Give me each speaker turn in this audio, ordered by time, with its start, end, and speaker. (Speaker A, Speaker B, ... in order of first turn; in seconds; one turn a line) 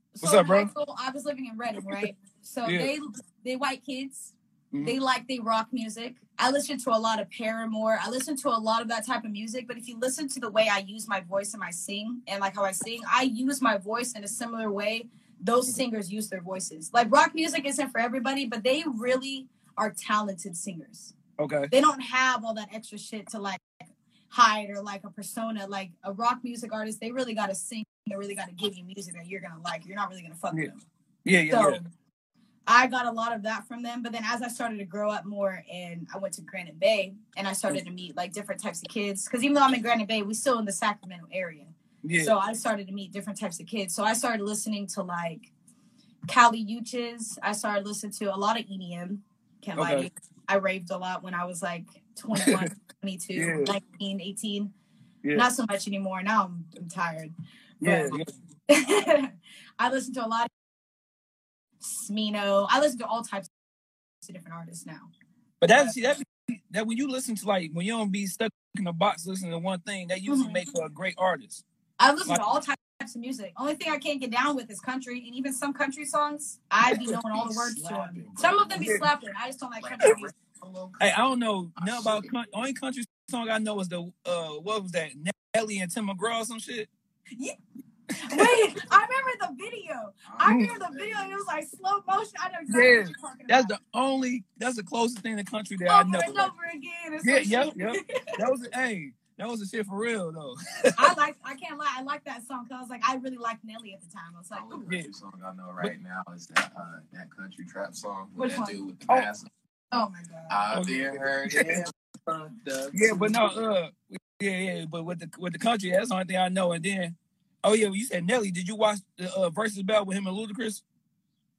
Speaker A: 0.2-21.1
Speaker B: 0.2-0.7
Speaker B: 2.6-2.9
Speaker B: 21.4-21.7
Speaker A: 21.7-30.8
Speaker B: 31.2-31.8
Speaker A: 31.5-31.9
Speaker A: 32.7-45.5
Speaker B: 42.0-42.4
Speaker A: 46.3-54.7
Speaker B: 49.8-50.1
Speaker B: 52.4-52.7
Speaker B: 53.4-53.7
Speaker A: 55.3-58.2
Speaker B: 57.8-58.3
Speaker A: 58.7-60.5
Speaker A: 61.8-63.5
Speaker A: 64.2-65.1
Speaker B: 65.6-71.6
Speaker A: 70.3-70.7
Speaker A: 72.0-80.3
Speaker B: 76.9-77.2
Speaker C: 77.1-79.0
Speaker B: 78.8-79.0
Speaker C: 79.8-81.1
Speaker B: 81.0-86.9
Speaker C: 81.8-82.3
Speaker A: 88.2-93.8
Speaker C: 90.3-91.4
Speaker B: 92.7-96.5
Speaker A: 95.9-98.3
Speaker B: 97.2-101.1
Speaker A: 101.0-104.9
Speaker C: 104.5-109.5
Speaker A: 108.4-108.8
Speaker A: 109.9-110.6
Speaker C: 110.5-113.5
Speaker B: 110.7-111.8
Speaker B: 112.9-120.8